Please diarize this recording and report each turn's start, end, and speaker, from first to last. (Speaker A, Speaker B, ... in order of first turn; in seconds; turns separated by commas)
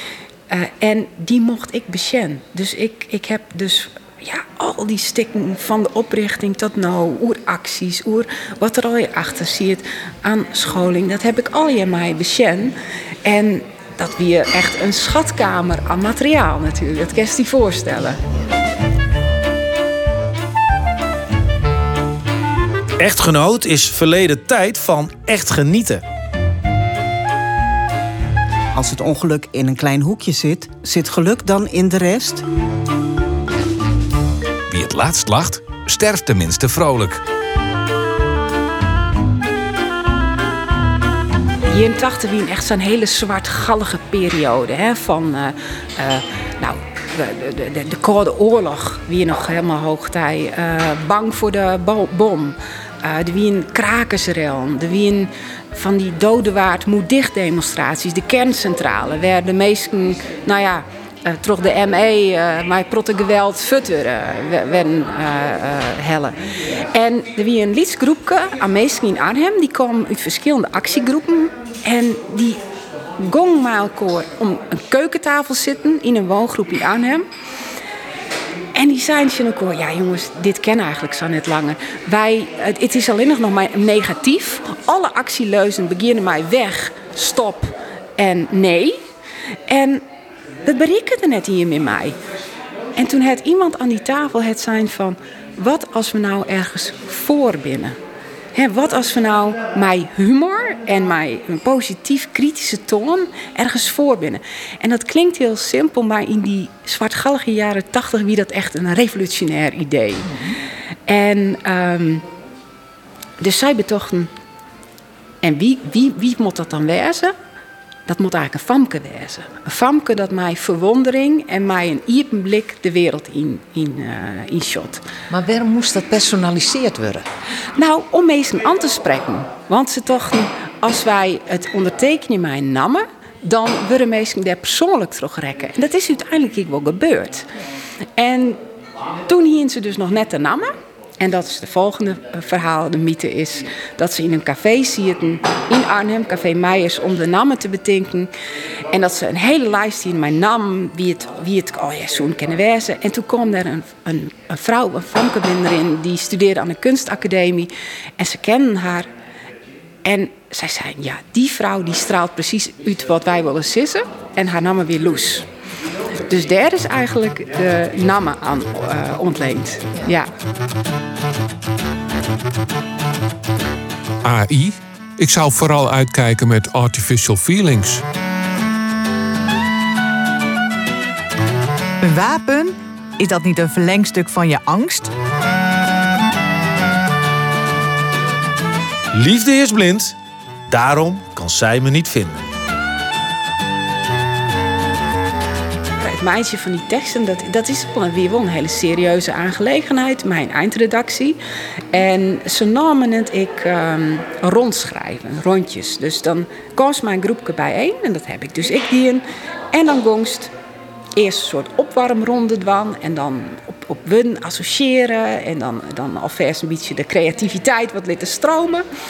Speaker A: 0.5-18.2, Speaker B: 23.0-26.0, Speaker C: 28.7-32.4, Speaker D: 34.7-37.2, Speaker A: 41.7-66.3, Speaker A: 66.9-72.6, Speaker A: 73.2-77.2, Speaker A: 78.7-89.0, Speaker A: 89.7-90.0, Speaker A: 90.6-92.2, Speaker A: 92.9-98.0, Speaker A: 98.5-110.4, Speaker A: 111.0-112.2, Speaker A: 113.4-114.3, Speaker A: 115.4-117.3, Speaker A: 118.0-125.0, Speaker E: 125.3-127.2, Speaker A: 127.8-137.4, Speaker A: 138.2-138.6, Speaker A: 139.3-148.3, Speaker A: 148.9-159.1, Speaker A: 160.0-165.5, Speaker A: 166.3-170.3, Speaker F: 174.2-178.0, Speaker G: 182.0-185.1, Speaker B: 189.1-190.2, Speaker B: 190.7-192.5, Speaker A: 196.0-201.4, Speaker A: 201.9-210.5, Speaker A: 211.2-218.8